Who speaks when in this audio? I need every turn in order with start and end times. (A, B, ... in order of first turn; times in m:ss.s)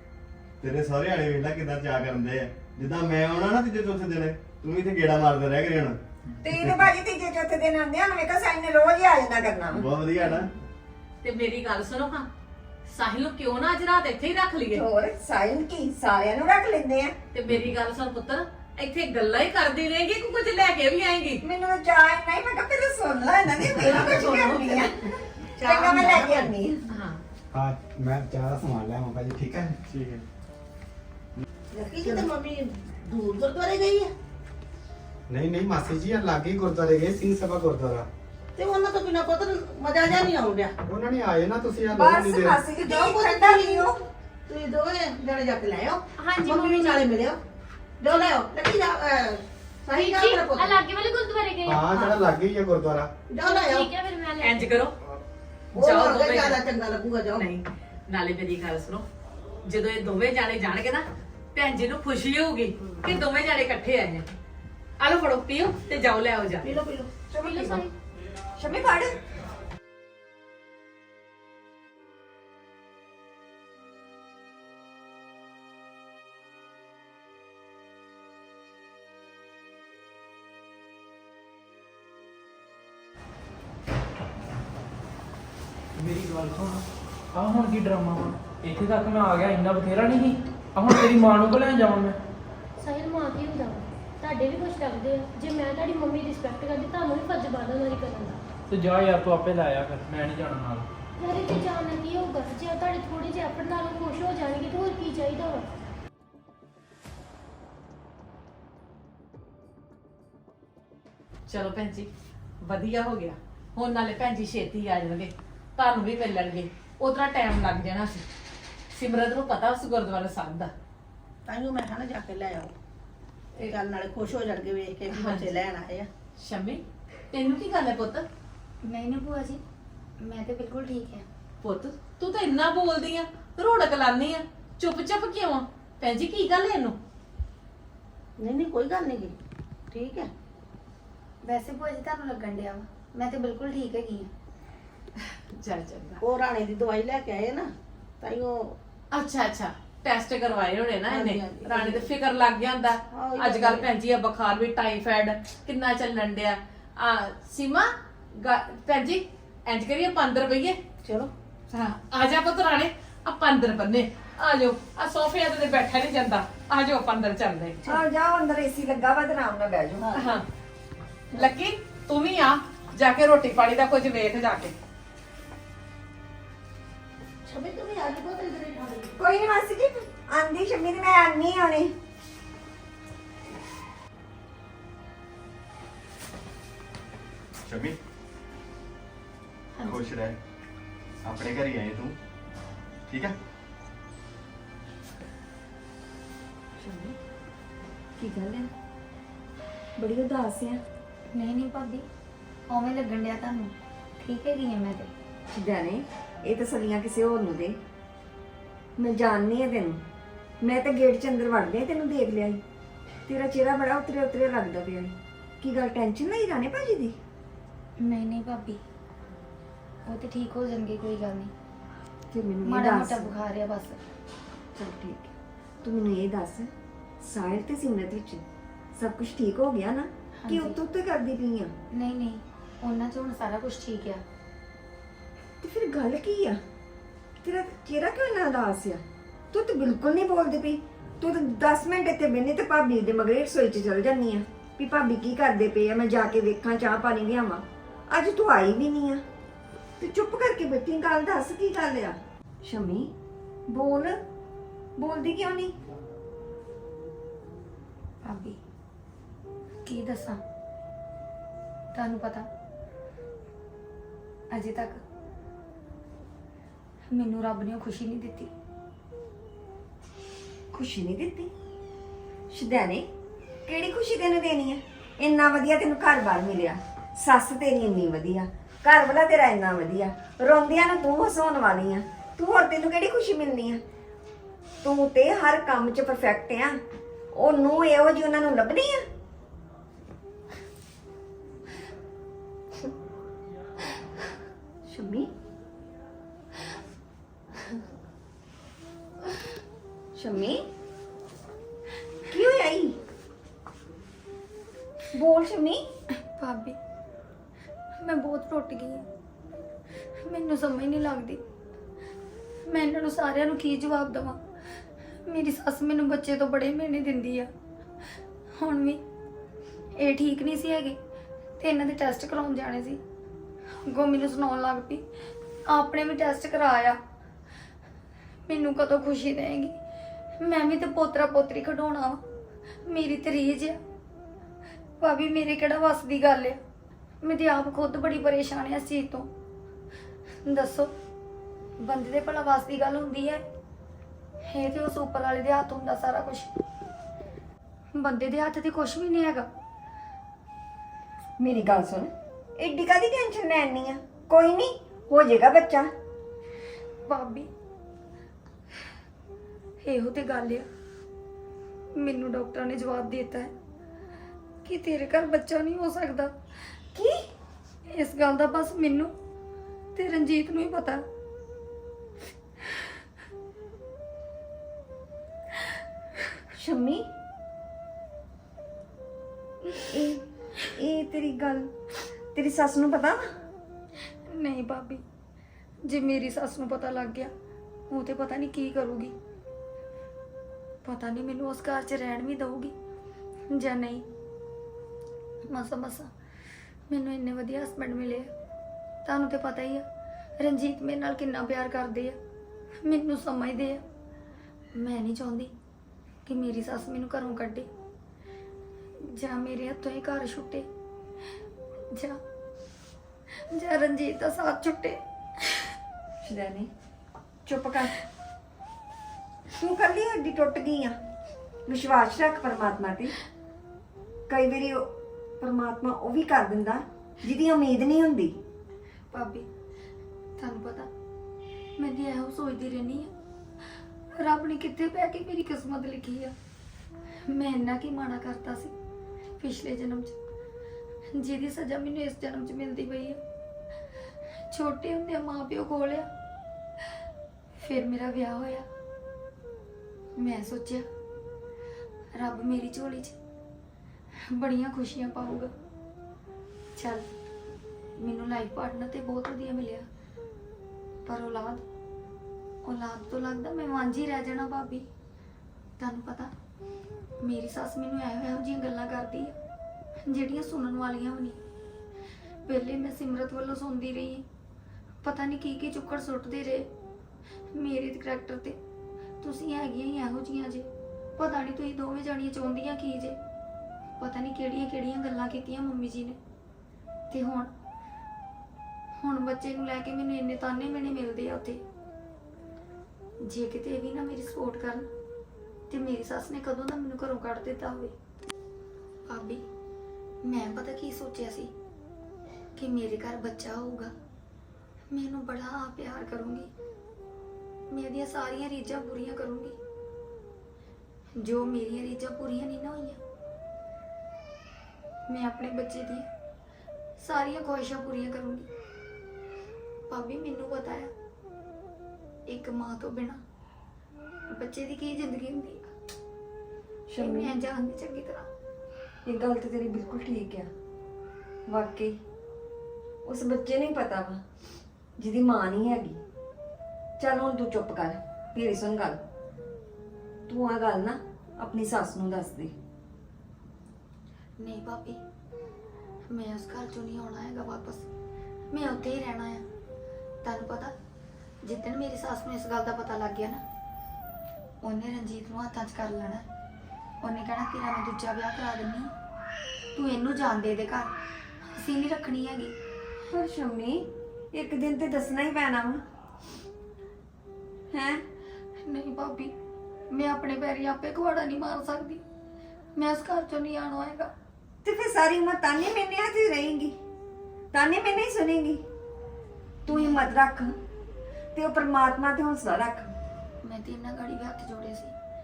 0:00.6-0:06.9 A
0:06.4-0:09.9 B
0:09.7-0:10.5 A
0:11.2-0:12.3 C
0:12.9-0:14.8 C
0:14.7-0:17.2 B
0:17.3-0:21.4 C
0:21.4-0:24.9 B
0:23.8-0:24.9 C
0:25.6-0:26.5 D
0:25.6-0:26.8 B
0:26.9-0:27.2 C
0:27.5-0:30.0 E
0:29.9-0:30.2 A
0:31.7-0:34.1 D
0:35.3-0:38.1 E
0:38.6-0:40.7 D
0:40.8-0:42.6 E
0:41.9-0:44.0 B
0:42.8-0:47.4 D
0:46.2-0:47.1 F
0:48.0-0:50.8 D
0:49.9-0:51.9 F
0:51.6-0:53.1 E
0:51.9-0:52.2 D
0:53.3-0:53.9 D
0:53.4-0:54.8 F
0:54.4-0:55.0 C
0:55.8-0:56.6 C
0:55.8-0:57.5 D
0:57.4-0:59.1 C
0:59.6-1:04.3 C
1:05.0-1:06.7 C
1:06.6-1:07.2 D
1:07.3-1:07.8 B
1:07.4-1:07.8 F
1:08.6-1:09.2 B
1:26.0-1:32.2 G
1:32.8-1:38.4 F
1:38.7-1:40.9 G
1:41.2-1:45.7 F
1:51.5-1:52.1 C
1:52.6-1:58.2 C
1:58.9-2:00.7 C
2:01.5-2:02.7 D
2:03.6-2:06.1 D
2:05.1-2:05.6 C
2:06.4-2:08.2 C
2:08.8-2:09.6 H
2:10.2-2:11.3 H
2:11.6-2:17.0 C
2:18.4-2:19.4 D
2:19.9-2:20.3 D
2:21.4-2:24.3 H
2:25.2-2:26.2 C
2:26.2-2:27.7 D
2:28.2-2:28.7 D
2:29.1-2:40.8 C
2:31.1-2:32.1 D
2:33.1-2:33.9 D
2:41.0-2:41.3 D
2:41.7-2:47.8 C
2:47.9-2:50.2 B
2:50.2-2:50.4 C
2:51.3-2:54.8 C
2:57.4-2:59.2 D
2:59.2-3:01.9 B
3:07.6-3:08.0 A
3:09.8-3:10.1 H
3:09.8-3:10.4 A
3:11.2-3:12.2 A
3:13.1-3:13.4 A
3:16.8-3:17.2 B
3:18.2-3:18.7 B
3:20.0-3:20.8 B
3:21.3-3:22.0 H
3:22.7-3:25.1 H
3:25.5-3:27.8 B
3:29.0-3:30.0 B
3:30.6-3:32.6 B
3:33.3-3:37.2 B
3:38.0-3:38.8 H
3:40.1-3:41.5 H
3:42.3-3:43.4 B
3:42.6-3:44.0 H
3:44.8-3:48.4 B
3:49.0-3:51.7 B
3:50.4-3:50.8 H
3:51.9-3:54.2 H
3:55.6-3:56.6 B
3:57.4-4:09.2 B
4:10.0-4:13.1 B
4:13.7-4:14.2 B
4:15.0-4:15.8 B
4:18.2-4:18.6 H
4:19.9-4:20.4 H
4:21.9-4:22.5 H
4:24.5-4:25.0 H
4:27.1-4:28.5 H
4:30.7-4:31.5 B
4:32.5-4:33.1 B
4:33.7-4:43.8 B
4:44.8-4:46.8 B
4:47.3-4:49.1 B
4:54.8-4:55.3 B
5:00.2-5:00.7 B
5:02.3-5:03.0 B
5:05.1-5:05.8 B
5:06.3-5:06.8 H
5:08.0-5:09.1 H
5:10.3-5:11.4 H
5:12.7-5:14.4 H
5:15.3-5:17.5 H
5:18.6-5:19.0 H
5:20.0-5:21.0 H
5:21.6-5:23.0 H
5:23.9-5:25.0 H
5:25.7-5:27.0 H
5:28.5-5:29.8 H
5:30.4-5:32.2 H
5:32.9-5:33.8 H
5:35.0-5:36.6 H
5:37.2-5:39.3 H
5:40.4-5:40.9 H
5:41.8-5:43.4 H
5:44.5-5:46.5 H
5:48.0-5:49.5 H
5:51.4-5:55.9 B
5:57.1-5:57.5 H
5:59.8-6:00.7 H
6:02.0-6:03.5 H
6:04.6-6:06.3 H
6:07.9-6:09.1 H
6:10.0-6:11.0 H
6:16.6-6:17.1 B
6:19.8-6:21.7 B
6:22.3-6:23.3 B
6:24.3-6:25.0 H
6:25.9-6:27.3 H
6:27.9-6:29.2 H
6:30.8-6:32.7 H
6:33.5-6:34.0 H
6:35.5-6:36.1 H
6:36.9-6:38.3 H
6:39.0-6:39.8 H
6:40.4-6:42.2 H
6:42.8-6:43.8 H
6:44.8-6:45.5 H
6:46.3-6:47.7 H
6:49.0-6:50.7 H
6:51.9-6:52.2 H
6:53.5-6:55.7 H
6:56.2-6:56.7 B
6:57.5-6:58.0 B
6:59.6-7:01.0 B
7:01.7-7:03.2 B
7:04.3-7:08.4 B
7:09.1-7:09.5 H
7:10.4-7:10.9 H
7:11.8-7:13.1 H
7:14.2-7:16.3 H
7:17.3-7:18.7 H
7:19.4-7:20.2 H
7:21.1-7:23.2 H
7:24.5-7:26.1 H
7:27.6-7:28.7 H
7:30.2-7:30.9 H
7:32.1-7:33.2 H
7:34.3-7:35.5 H
7:36.8-7:37.1 H
7:38.0-7:39.9 H
7:41.1-7:41.6 H
7:42.6-7:44.9 H
7:45.8-7:46.3 H
7:47.2-7:49.4 H
7:50.1-7:51.4 H
7:52.5-7:54.2 H
7:55.0-7:56.7 H
7:57.6-7:58.6 H
7:59.2-8:03.2 H
8:04.0-8:06.2 H
8:07.1-8:07.5 H
8:09.0-8:11.6 H
8:13.2-8:14.9 H
8:15.7-8:17.9 H
8:19.1-8:19.4 H
8:20.2-8:21.5 H
8:22.6-8:23.9 H
8:24.9-8:26.5 H
8:27.7-8:29.6 H
8:31.2-8:33.0 H
8:35.1-8:36.1 H
8:37.0-8:38.5 H
8:39.9-8:40.9 H
8:42.3-8:43.2 H
8:44.3-8:45.7 H
8:46.9-8:47.4 B
8:47.0-8:48.3 H
8:49.0-8:50.5 B
8:51.5-8:52.0 B
8:53.0-8:54.2 B
8:55.0-8:56.0 B
8:57.0-8:59.0 B
9:00.3-9:02.5 B
9:04.4-9:05.0 H
9:06.1-9:07.9 H
9:08.5-9:09.4 H
9:10.2-9:10.7 H
9:11.4-9:13.4 H
9:14.6-9:16.2 H
9:17.0-9:18.9 H
9:19.7-9:20.9 H
9:21.5-9:22.5 H
9:23.1-9:25.8 B
9:27.7-9:28.0 B
9:28.6-9:29.3 H
9:29.9-9:32.0 H
9:32.8-9:34.1 H
9:34.6-9:36.8 B
9:37.5-9:38.6 B
9:39.6-9:40.5 B
9:39.7-9:40.0 H
9:41.3-9:42.9 B
9:43.4-9:44.9 H